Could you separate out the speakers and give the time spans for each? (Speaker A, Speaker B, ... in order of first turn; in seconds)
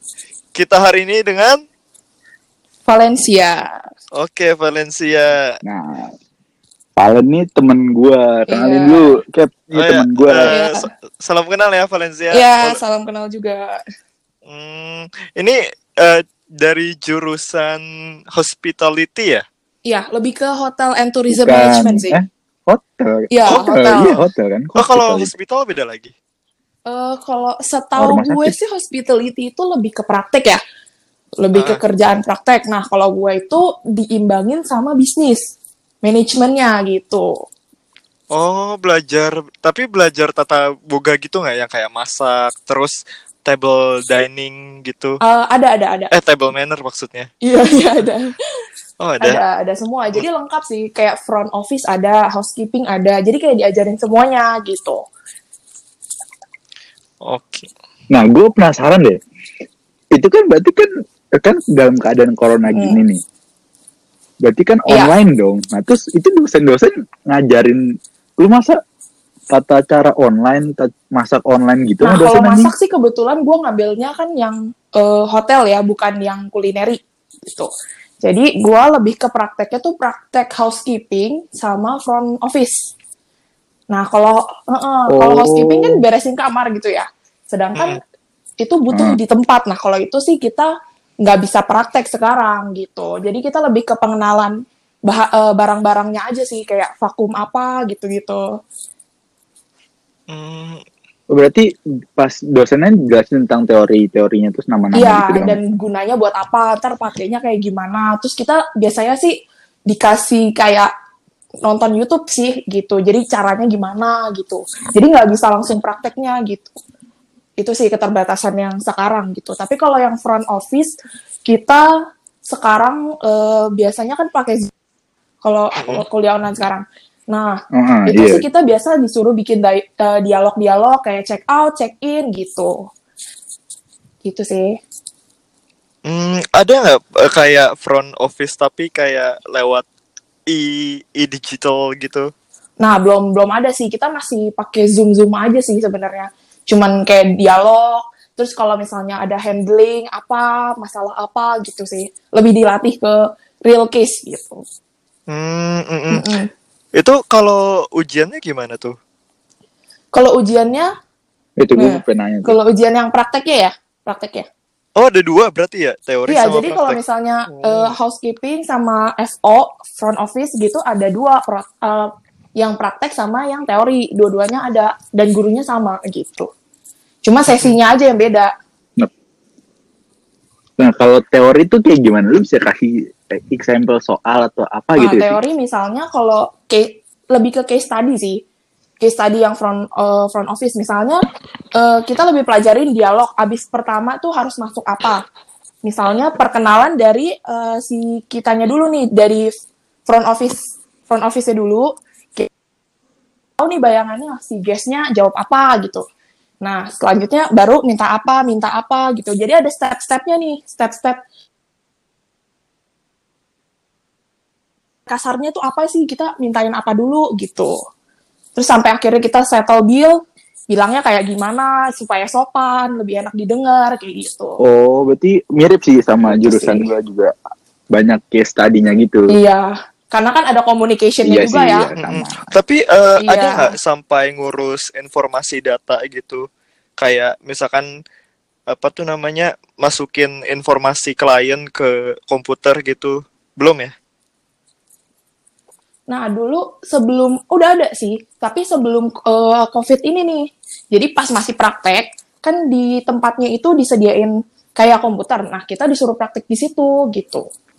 Speaker A: 0.5-1.6, 4.2-5.5, 9.7-12.8, 14.5-17.8, 18.3-19.4, 23.5-24.0, 24.8-26.1, 31.5-31.8, 38.3-45.2, 46.1-47.3, 49.0-49.4, 57.2-57.7, 100.3-100.8, 136.1-139.8, 140.5-142.3, 155.3-156.3, 156.9-159.0, 165.0-167.0, 167.5-167.9, 177.5-177.8, 232.0-236.4, 237.0-237.9, 238.7-243.9
Speaker B: 2.9-3.8, 8.5-9.0, 10.4-10.9, 12.3-13.8, 19.8-22.2, 23.3-24.2, 26.9-30.6, 31.4-35.5, 36.0-37.4, 45.2-46.1, 47.4-48.3, 49.2-55.0, 62.7-63.0, 64.9-65.1, 72.0-77.7, 78.2-82.9, 83.9-88.0, 88.6-98.5, 104.9-110.9, 111.6-116.8, 117.6-121.9, 122.4-124.7, 125.4-132.9, 134.2-134.8, 142.8-154.6, 156.1-156.5, 160.1-160.9, 161.8-164.5, 166.3-176.5, 177.2-178.5, 185.0-188.4, 189.0-191.2, 191.8-195.2, 195.8-199.5, 200.1-202.5, 203.6-206.0, 206.6-211.2, 215.1-217.8, 218.6-224.6, 226.3-226.9, 229.3-231.9, 233.2-233.8, 246.1-257.4
Speaker C: 5.6-6.1, 7.0-10.4, 21.3-25.3, 28.0-28.5, 58.1-59.2, 60.1-60.9, 61.4-63.2, 64.4-67.8, 68.4-68.8, 69.5-72.7, 85.1-86.0, 88.9-89.2, 101.3-105.6, 127.7-128.4, 161.6-162.6, 180.8-185.4, 224.6-227.3, 227.9-229.3, 231.2-232.5